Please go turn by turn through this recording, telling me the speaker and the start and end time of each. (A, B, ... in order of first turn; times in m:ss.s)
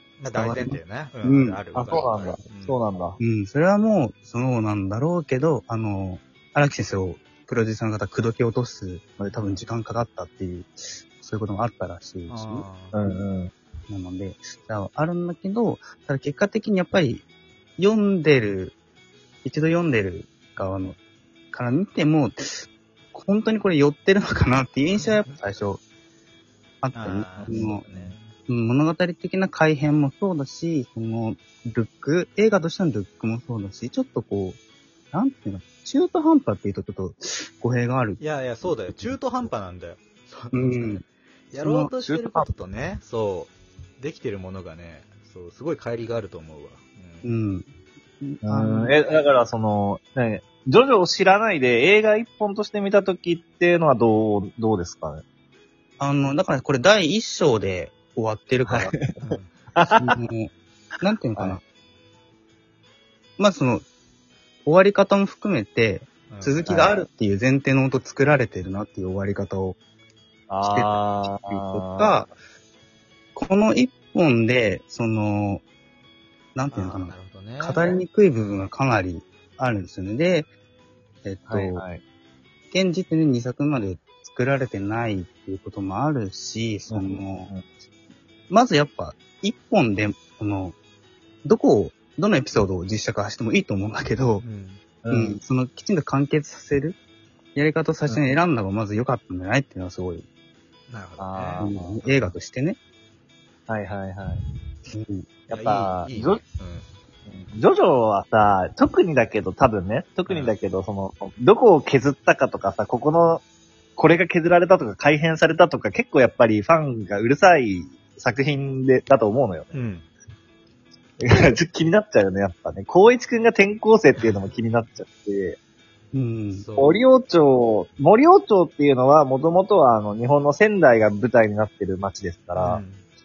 0:00.2-0:02.8 A
0:00.3-0:01.6 B
0:01.8-0:03.2 C
0:03.2-0:12.7 B
0:09.2-0:09.6 C
0:12.3-0:13.1 A
0:12.9-0:13.5 C
0:13.9-0:17.2 B
0:17.8-0:18.8 B
0:19.4-0:21.0 B
0:21.5-0:25.8 B
0:25.0-0:25.3 A
0:26.8-0:27.8 B
0:26.9-0:28.3 A
0:28.5-0:34.6 B
0:35.1-0:38.2 B
0:38.2-0:47.3 A
0:38.8-0:39.2 B
0:40.5-0:41.9 B
0:42.0-0:42.5 C
0:47.2-0:47.7 B
0:48.2-0:49.0 B
0:48.4-0:55.2 C
0:56.0-0:58.9 B
0:58.6-1:00.2 C
0:59.2-0:59.5 A
0:59.9-1:01.6 B
1:03.4-1:03.8 B
1:04.6-1:09.8 B
1:06.3-1:06.7 A
1:06.7-1:07.0 C
1:10.5-1:12.2 C
1:10.6-1:12.3 B
1:13.4-1:15.6 B
1:16.6-1:20.5 B
1:16.7-1:18.0 A
1:21.2-1:21.8 B
1:21.5-1:22.0 C
1:22.7-1:27.5 B
1:26.9-1:27.6 C
1:28.5-1:30.8 B
1:31.4-1:34.4 B
1:34.4-1:34.8 A
1:35.0-1:35.4 C
1:35.1-1:37.0 B
1:37.6-1:40.3 B
1:38.1-1:38.4 C
1:40.9-1:41.7 A
1:41.2-1:42.3 C
1:41.6-1:42.8 B
1:43.7-1:44.4 C
1:44.9-1:45.2 B
1:45.5-1:46.4 C
1:45.5-1:46.9 A
1:47.4-1:53.4 C
1:50.3-1:50.5 A
1:54.0-1:59.7 C
1:59.7-2:00.0 A
2:01.2-2:05.6 C
2:06.1-2:06.6 B
2:06.5-2:07.0 A
2:06.8-2:12.8 C
2:12.6-2:13.0 A